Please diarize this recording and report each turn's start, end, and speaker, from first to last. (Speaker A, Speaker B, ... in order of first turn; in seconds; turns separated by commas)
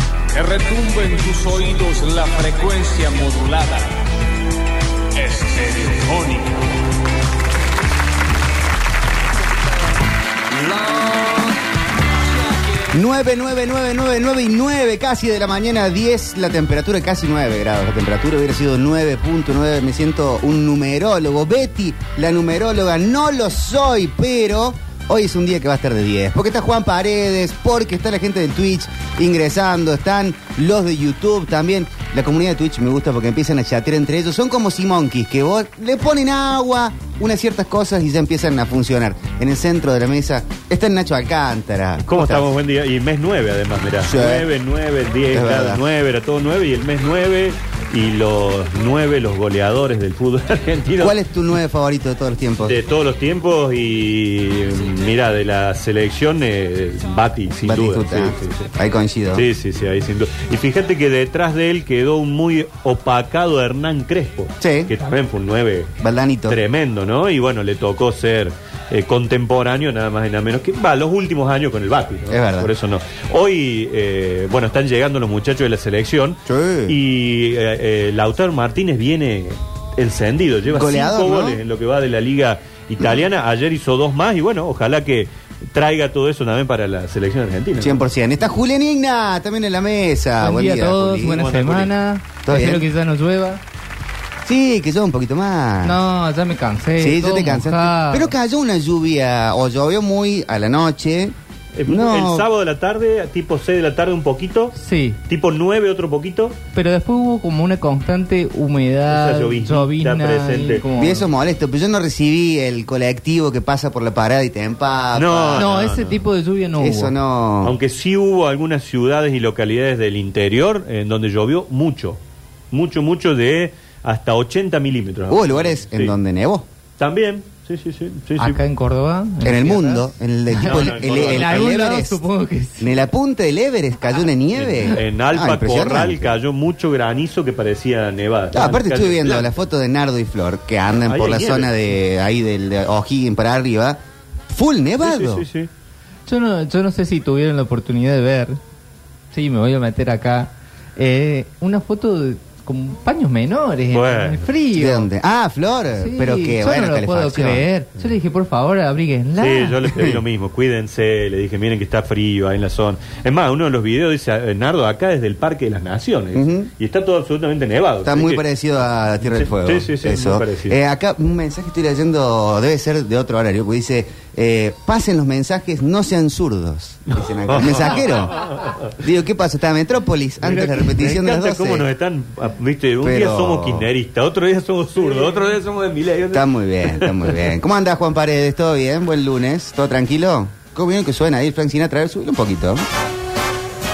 Speaker A: 0.3-4.1, Speaker A: 5.2-6.8, Speaker A: 10.5-13.0, Speaker B: 12.9-42.5, Speaker C: 42.1-51.2, Speaker B: 44.0-44.5, Speaker B: 45.3-45.9, Speaker B: 51.0-52.8, Speaker C: 52.6-58.7, Speaker B: 57.7-59.5, Speaker C: 59.3-65.9, Speaker B: 64.6-64.9, Speaker B: 66.0-66.6, Speaker C: 66.5-88.0, Speaker B: 72.3-72.7, Speaker B: 76.5-77.0, Speaker B: 80.7-81.6, Speaker B: 87.8-91.4, Speaker D: 90.4-93.6, Speaker C: 91.2-91.9, Speaker B: 92.4-92.9, Speaker B: 94.5-96.0, Speaker D: 95.8-98.3, Speaker B: 97.0-101.3, Speaker C: 101.8-104.8, Speaker B: 101.9-102.5, Speaker D: 104.8-105.2, Speaker C: 105.3-106.6, Speaker D: 106.7-111.3, Speaker C: 109.1-110.8, Speaker B: 111.0-115.7, Speaker C: 115.1-116.2, Speaker D: 115.6-117.1, Speaker B: 116.8-117.8, Speaker C: 117.6-122.2, Speaker C: 122.7-126.1, Speaker B: 125.3-126.7, Speaker C: 127.0-128.6, Speaker D: 128.4-133.0, Speaker B: 129.4-132.2, Speaker C: 130.6-131.8, Speaker B: 132.8-136.3, Speaker C: 134.5-139.5, Speaker B: 138.5-145.4, Speaker C: 141.1-141.7, Speaker C: 145.0-145.7, Speaker D: 146.3-148.6, Speaker D: 149.3-155.1, Speaker C: 153.9-154.5, Speaker B: 154.7-157.7, Speaker D: 156.0-159.9, Speaker C: 159.4-168.4, Speaker B: 166.3-166.7, Speaker B: 168.0-178.4, Speaker C: 169.2-170.8, Speaker C: 177.2-178.9, Speaker B: 179.0-181.9, Speaker C: 180.4-187.4, Speaker B: 183.0-183.9, Speaker B: 186.3-192.8